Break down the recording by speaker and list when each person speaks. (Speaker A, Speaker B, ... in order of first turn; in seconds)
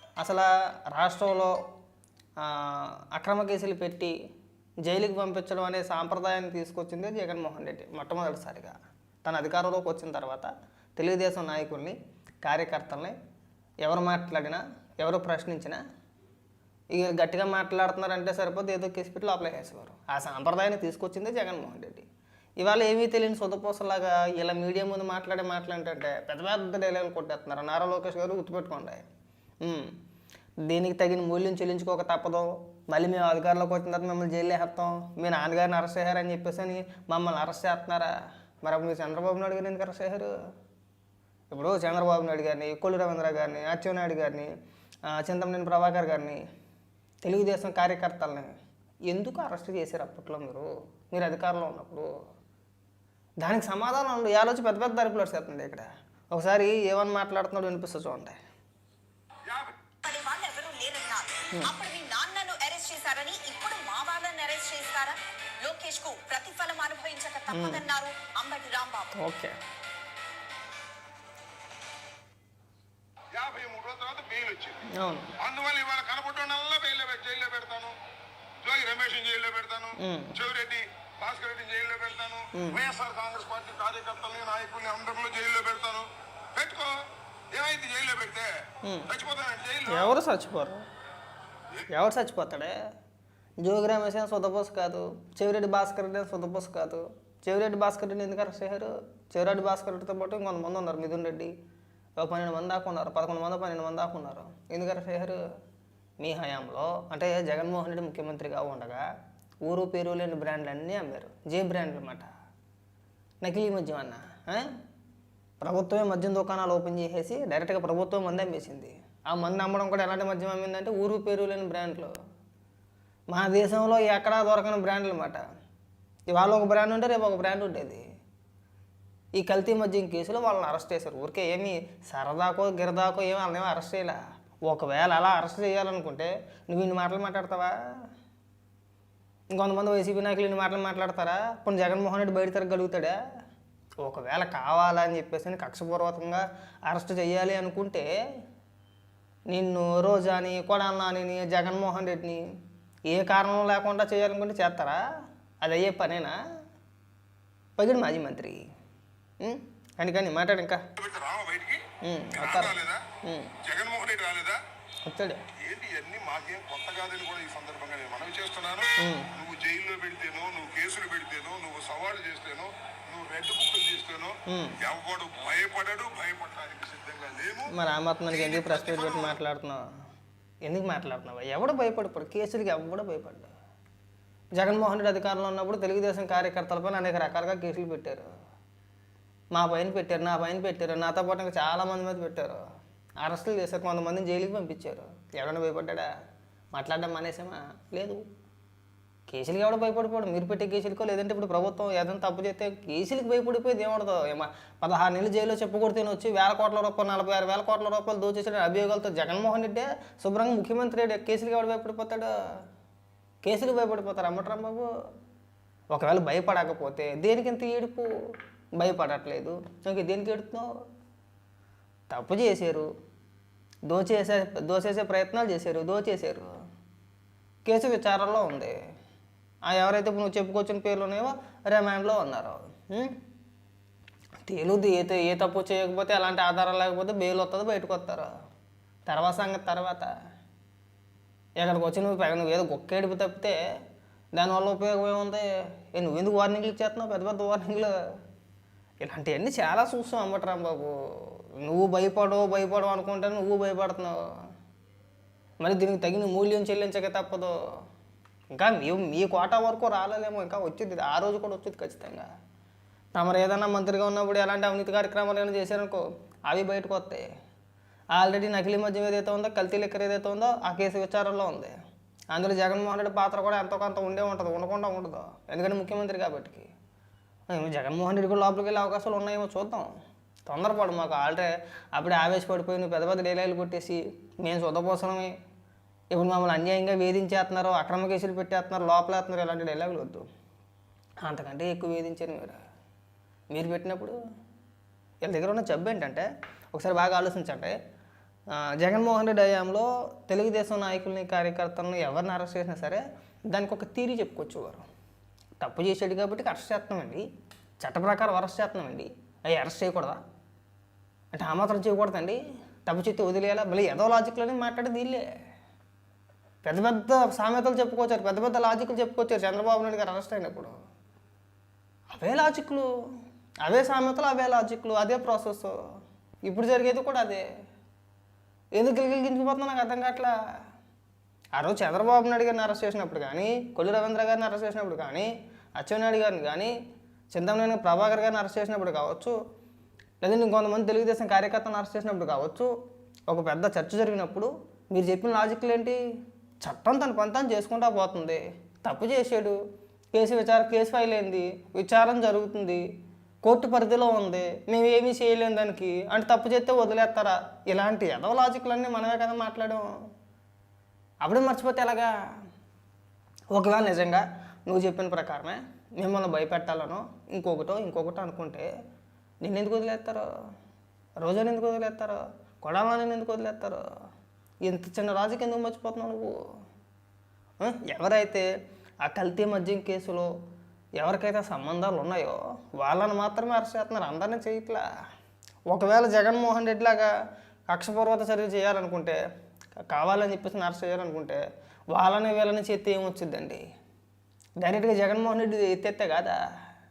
Speaker A: 0.2-1.6, 2.4-4.1, 4.8-13.2, 13.8-15.8, 16.9-22.1, 22.6-29.0, 29.6-30.0, 30.6-40.3, 41.5-44.5, 45.1-46.4, 47.2-48.5, 49.1-52.1, 53.4-58.4, 67.5-67.8, 69.2-69.6, 74.9-75.3, 80.0-80.3, 82.5-82.8, 88.8-89.1, 89.9-90.8, 91.9-92.8, 93.6-101.5, 102.2-105.4, 106.2-109.0, 109.6-112.3, 113.4-114.7, 115.6-122.1, 123.3-125.5, 126.3-128.0, 129.4-137.8, 139.5-143.2, 144.0-148.1, 149.5-152.4, 153.1-155.0, 155.6-156.3, 157.8-158.6, 159.4-160.8, 162.0-163.5, 165.1-165.4, 169.0-169.3, 174.5-174.8, 177.7-179.8, 180.7-183.5, 184.6-188.3, 189.5-192.6, 193.2-196.1, 196.7-198.2, 199.3-212.3, 213.4-214.9, 215.9-218.1, 218.8-220.7, 222.1-222.9, 223.9-226.5, 227.7-228.8, 229.7-233.2, 234.4-238.3, 239.1-240.1, 241.6-243.6, 244.3-248.0, 249.0-254.2, 255.6-257.5, 258.5-262.3, 263.1-267.3, 268.1-271.7, 272.3-276.7, 277.5-279.9, 280.5-285.3, 286.1-290.3, 291.2-292.6, 293.5-294.2, 295.2-297.8, 298.6-304.8, 305.6-307.2, 307.8-310.2, 311.4-315.3, 316.6-320.7, 322.1-322.9, 323.6-325.8, 326.4-327.4, 328.8-330.3, 331.6-336.7, 337.3-339.4, 340.2-342.7, 343.3-346.0, 346.6-349.6, 350.1-352.8, 353.4-359.9, 361.2-362.1, 363.5-368.7, 369.4-370.3, 371.2-373.8, 374.6-376.3, 377.6-378.5, 379.0-380.3, 381.0-384.8, 385.7-387.1, 387.7-389.2, 389.9-391.4, 391.9-393.6, 394.6-396.4
Speaker B: 59.5-69.1
Speaker C: 73.3-74.8, 75.4-78.0, 78.6-90.1, 161.0-161.8, 162.4-163.0, 163.6-164.6, 165.6-177.7, 178.3-179.4